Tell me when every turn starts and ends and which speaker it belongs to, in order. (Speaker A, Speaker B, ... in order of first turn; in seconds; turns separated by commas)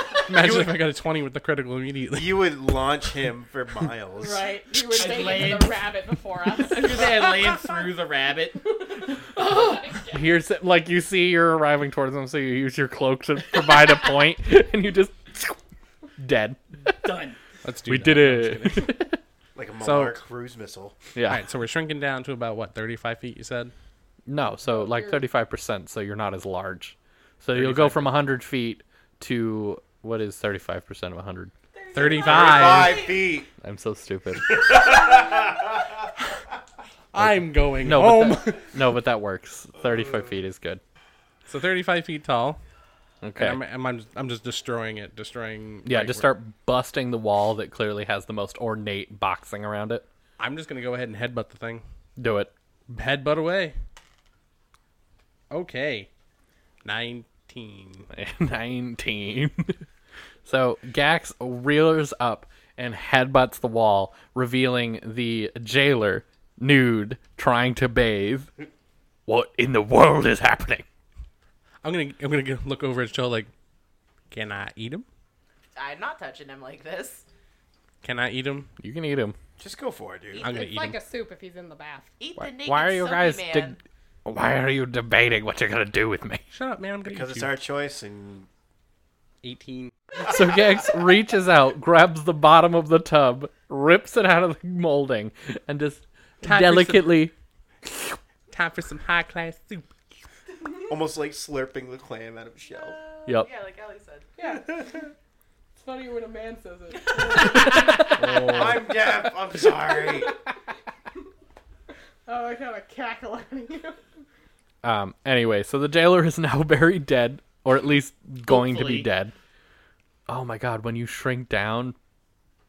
Speaker A: 0.2-2.5, Speaker B: 0.3-0.9, Speaker B: 2.1-5.2, Speaker C: 4.2-7.9, Speaker D: 4.9-5.8, Speaker D: 6.6-10.1, Speaker C: 8.7-10.2, Speaker E: 10.1-15.6, Speaker E: 16.2-16.9, Speaker D: 16.9-17.4, Speaker A: 17.6-19.0, Speaker E: 17.9-19.2, Speaker B: 19.6-21.0, Speaker A: 19.8-20.2, Speaker E: 21.2-21.4, Speaker A: 21.3-23.7, Speaker E: 24.3-31.5, Speaker C: 24.7-25.2, Speaker A: 27.5-28.1, Speaker F: 31.7-33.4, Speaker A: 31.9-33.0, Speaker B: 32.1-33.5, Speaker E: 33.6-34.6, Speaker B: 34.5-35.9, Speaker F: 34.5-35.6, Speaker A: 37.1-38.7, Speaker E: 37.2-40.8, Speaker A: 41.5-42.6, Speaker E: 43.2-43.6, Speaker A: 43.4-46.3, Speaker E: 45.9-50.0, Speaker A: 50.4-51.8, Speaker E: 52.2-52.5, Speaker A: 52.9-53.8, Speaker A: 55.5-56.1, Speaker A: 56.8-58.1, Speaker E: 58.1-59.8, Speaker E: 60.5-68.5, Speaker E: 69.3-70.9, Speaker A: 71.8-73.5, Speaker A: 74.3-75.1, Speaker F: 75.8-77.2, Speaker A: 78.0-78.7, Speaker E: 78.8-79.4, Speaker B: 79.6-80.5, Speaker F: 80.3-80.6, Speaker A: 80.4-81.0, Speaker C: 80.5-82.1, Speaker F: 82.2-83.8, Speaker E: 82.4-86.5, Speaker A: 86.5-87.5, Speaker B: 87.0-88.5, Speaker A: 89.4-90.0, Speaker E: 90.2-97.3, Speaker A: 96.4-97.2, Speaker E: 97.9-98.2, Speaker A: 98.5-99.9, Speaker B: 100.9-103.0, Speaker F: 102.6-104.3, Speaker C: 104.4-104.8, Speaker C: 105.8-108.1, Speaker E: 107.8-108.5, Speaker A: 108.1-108.9, Speaker B: 108.5-110.3, Speaker C: 112.3-114.0, Speaker E: 114.8-119.3, Speaker D: 118.5-119.1, Speaker E: 120.3-122.0